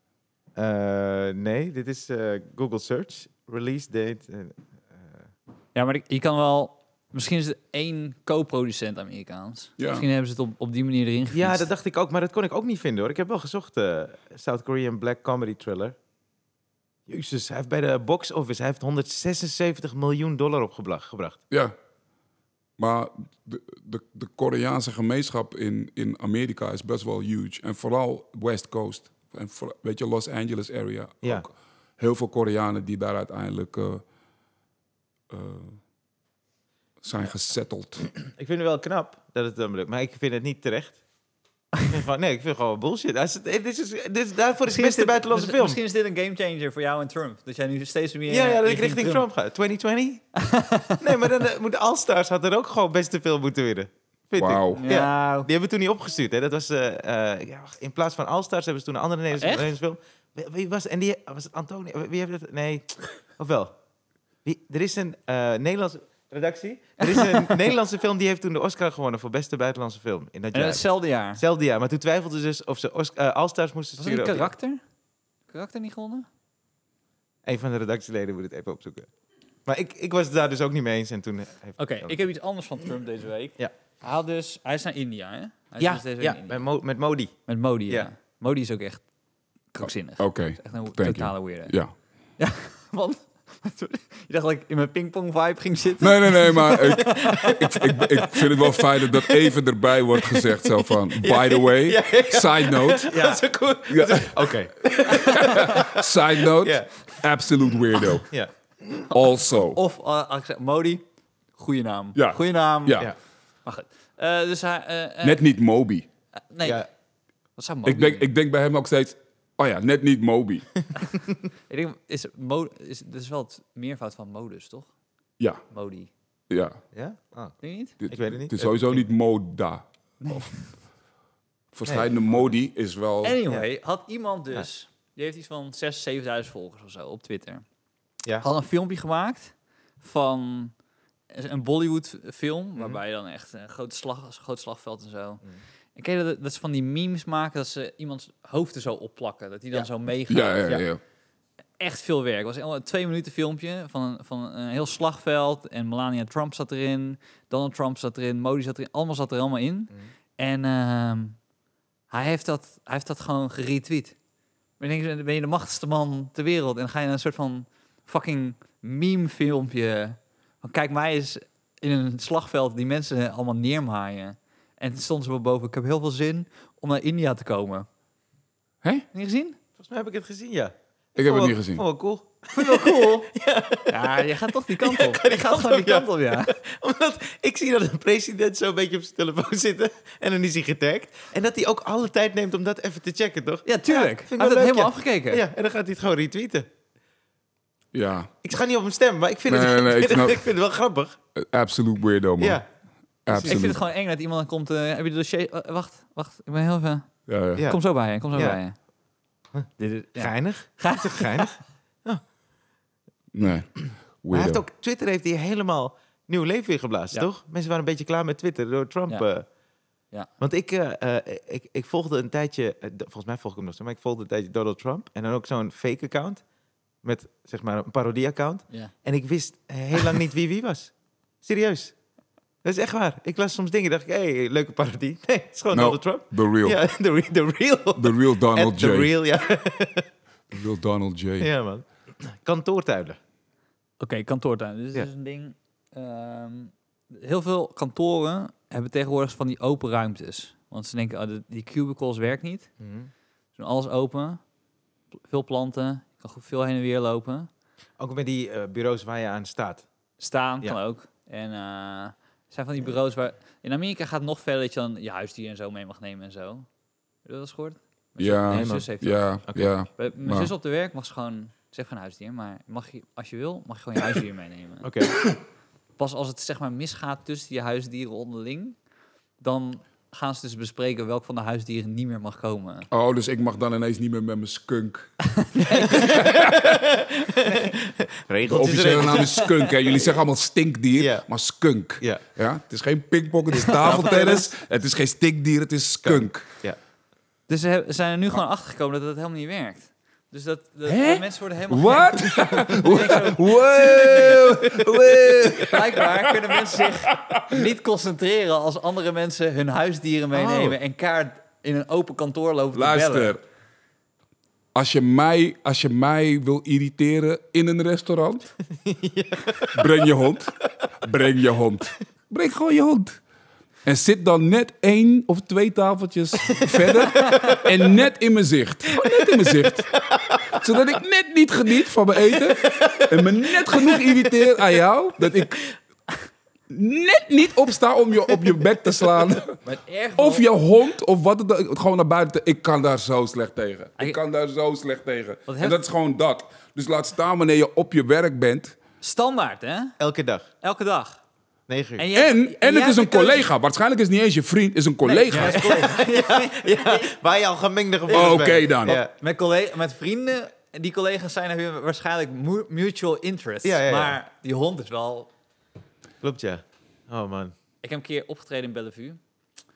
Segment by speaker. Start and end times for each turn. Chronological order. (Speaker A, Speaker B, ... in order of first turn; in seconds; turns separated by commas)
Speaker A: 0.6-5.2, Speaker B: 5.8-11.7, Speaker C: 9.8-10.1, Speaker A: 11.3-16.0, Speaker A: 17.1-21.4, Speaker C: 22.8-34.0, Speaker C: 35.3-35.8, Speaker C: 37.0-38.0, Speaker A: 38.2-41.0, Speaker A: 41.8-45.8, Speaker B: 44.7-49.2, Speaker A: 48.3-50.3, Speaker B: 50.4-51.0, Speaker A: 51.0-63.8, Speaker C: 54.4-54.8, Speaker B: 54.8-55.5, Speaker B: 59.4-59.7, Speaker A: 64.5-74.5, Speaker B: 67.0-67.6, Speaker B: 70.5-71.4, Speaker B: 74.0-74.8, Speaker B: 75.5-76.3, Speaker A: 77.5-79.1, Speaker A: 79.7-82.2, Speaker B: 81.8-86.6, Speaker A: 85.8-88.1, Speaker B: 87.5-89.1, Speaker B: 89.7-91.8, Speaker C: 89.8-91.9, Speaker B: 92.4-98.4, Speaker C: 96.0-103.1, Speaker A: 97.0-97.6, Speaker A: 101.1-107.2, Speaker B: 103.1-103.4, Speaker C: 103.9-104.3, Speaker B: 105.2-105.7, Speaker C: 105.3-108.3, Speaker A: 108.0-109.1, Speaker C: 109.1-109.8, Speaker B: 109.7-111.0, Speaker B: 111.6-113.1, Speaker C: 112.2-113.1, Speaker B: 113.7-115.4, Speaker C: 115.2-116.1, Speaker B: 116.5-116.8, Speaker B: 117.6-118.3, Speaker C: 117.8-120.7, Speaker B: 121.7-124.9, Speaker B: 125.7-126.1, Speaker C: 126.5-126.8, Speaker A: 126.9-129.0, Speaker B: 127.6-128.0, Speaker C: 128.0-130.6, Speaker B: 130.2-130.7, Speaker C: 131.7-133.4, Speaker A: 131.8-132.1, Speaker B: 133.2-137.6, Speaker B: 138.4-140.7, Speaker B: 141.3-145.4, Speaker B: 146.0-150.8, Speaker C: 150.3-151.0, Speaker B: 151.8-161.4, Speaker B: 162.1-164.2, Speaker B: 164.8-177.9, Speaker B: 179.1-179.6, Speaker A: 179.8-196.7, Speaker C: 181.2-181.8, Speaker B: 182.5-183.3, Speaker B: 183.9-186.6, Speaker B: 193.7-195.4, Speaker C: 197.9-198.3, Speaker A: 198.4-201.2, Speaker C: 199.5-200.5, Speaker C: 201.4-202.6, Speaker A: 202.4-202.7, Speaker C: 203.3-203.8, Speaker B: 203.3-208.8, Speaker A: 203.3-203.6, Speaker C: 207.3-207.7, Speaker A: 208.3-208.6, Speaker A: 209.6-212.2, Speaker B: 209.8-211.5, Speaker C: 213.3-214.6, Speaker A: 213.5-219.5, Speaker A: 220.4-226.4, Speaker A: 227.0-231.9, Speaker A: 232.6-240.1, Speaker C: 235.7-236.8, Speaker C: 238.0-239.1, Speaker C: 240.5-241.5, Speaker A: 241.4-243.2, Speaker B: 244.0-252.7, Speaker A: 252.8-253.1, Speaker B: 253.6-254.4, Speaker B: 255.3-257.5, Speaker A: 258.0-259.9, Speaker B: 260.2-266.7, Speaker B: 267.2-269.4, Speaker C: 268.2-270.5, Speaker A: 268.5-268.9, Speaker B: 270.0-274.9, Speaker A: 274.8-275.3, Speaker B: 276.0-278.8, Speaker B: 279.4-282.9, Speaker C: 282.9-285.2, Speaker B: 285.4-286.2, Speaker A: 285.6-290.2, Speaker C: 285.9-286.8, Speaker C: 288.5-296.5, Speaker B: 288.9-289.7, Speaker A: 291.0-291.3, Speaker A: 292.0-292.2, Speaker A: 293.5-294.5, Speaker B: 293.9-294.1, Speaker A: 296.0-296.8, Speaker B: 297.5-304.5, Speaker C: 300.9-307.6, Speaker A: 302.4-303.1, Speaker A: 304.0-305.4, Speaker B: 305.6-313.4, Speaker A: 310.3-310.8, Speaker C: 312.7-313.4, Speaker C: 314.7-318.5, Speaker A: 318.8-319.9, Speaker C: 319.7-323.2, Speaker C: 323.9-330.0, Speaker A: 326.5-327.7, Speaker B: 327.2-327.6, Speaker A: 328.9-330.6, Speaker C: 330.5-335.6, Speaker A: 332.4-334.1, Speaker A: 335.3-335.7, Speaker C: 336.7-339.6, Speaker B: 339.6-340.5, Speaker C: 340.2-348.8, Speaker B: 345.5-345.8, Speaker B: 349.0-350.0, Speaker A: 350.0-350.5, Speaker B: 350.6-351.2, Speaker A: 351.7-352.1, Speaker B: 352.0-353.5, Speaker C: 352.1-355.9, Speaker B: 355.0-357.1, Speaker A: 355.3-359.1, Speaker C: 358.1-359.0, Speaker B: 358.2-365.3, Speaker A: 363.6-364.2, Speaker A: 366.2-367.5, Speaker B: 367.8-369.2